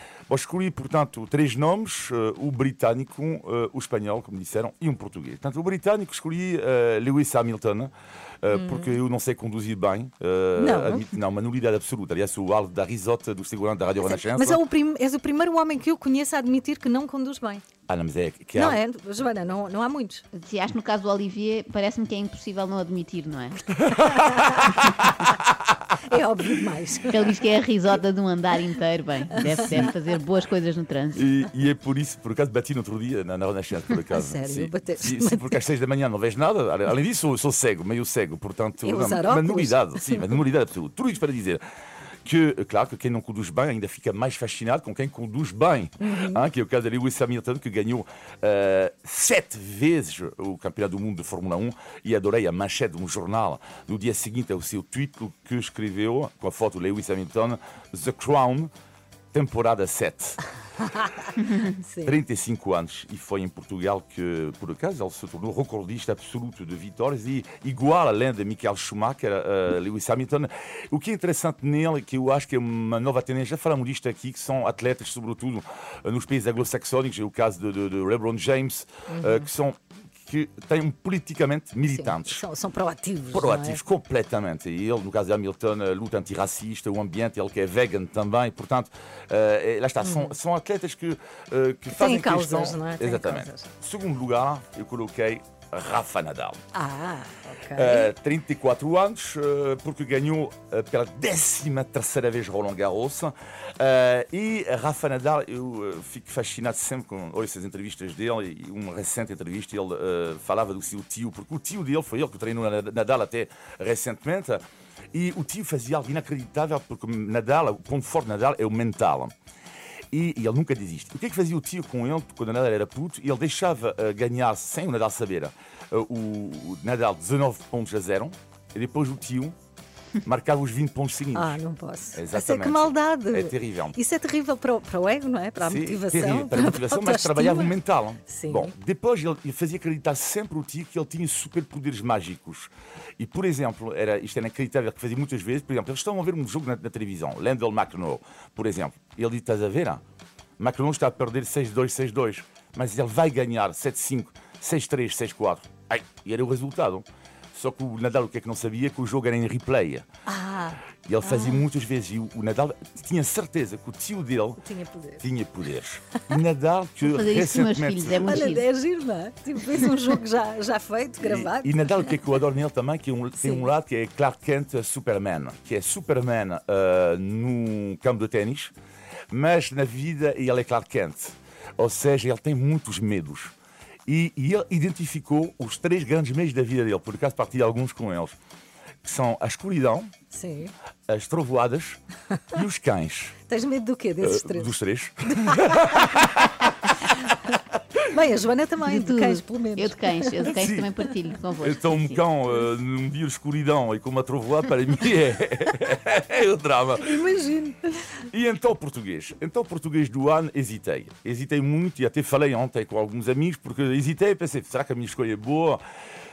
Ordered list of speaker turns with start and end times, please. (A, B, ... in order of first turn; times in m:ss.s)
0:00.3-0:14.6 A
0:08.5-0:09.0 B
0:10.6-0:11.1 B
0:14.0-0:17.6 B
0:17.9-0:18.8 A
0:18.5-0:20.2 B
0:20.3-0:23.7 C
0:23.7-0:25.2 A
0:24.1-0:24.6 B
0:26.0-0:27.3 B
0:27.1-0:31.2 C
0:29.4-0:29.8 B
0:31.2-0:41.6 A
0:34.1-0:35.6 B
0:38.8-0:40.3 B
0:42.2-0:58.7 A
0:46.0-0:46.4 B
0:59.3-1:00.4 A
1:01.8-1:02.1 B
1:02.0-1:22.4 A
1:19.1-1:19.4 B
1:21.9-1:23.8 B
1:23.3-1:36.6 A
1:30.0-1:30.3 B
1:31.9-1:33.7 B
1:36.7-1:38.1 B
1:37.7-1:54.6 A
1:55.1-1:59.3 A
2:00.1-2:09.5 A
2:10.2-2:11.6 A
2:11.3-2:17.8 B
2:12.1-2:14.0 A
2:15.6-2:30.0 A
2:18.3-2:18.7 B
2:30.6-2:40.1 A
2:40.3-2:41.6 B
2:41.0-2:44.6 A
2:44.6-2:45.2 B
2:45.2-2:48.5 A
2:47.0-2:48.6 C
2:48.2-2:52.1 B
2:51.2-2:58.7 A
2:53.4-2:53.7 B
2:59.3-3:03.5 A
3:04.0-3:08.3 A
3:09.0-3:10.1 A
3:10.3-3:10.7 B
3:11.1-3:12.0 A
3:12.5-3:13.4 A
3:13.5-3:16.2 B
3:14.2-3:16.6 A
3:17.1-3:17.4 B
3:18.1-3:20.5 B
3:18.8-3:22.2 C
3:20.5-3:20.9 A
3:21.6-3:27.2 A
3:27.0-3:28.1 B
3:28.3-3:35.8 A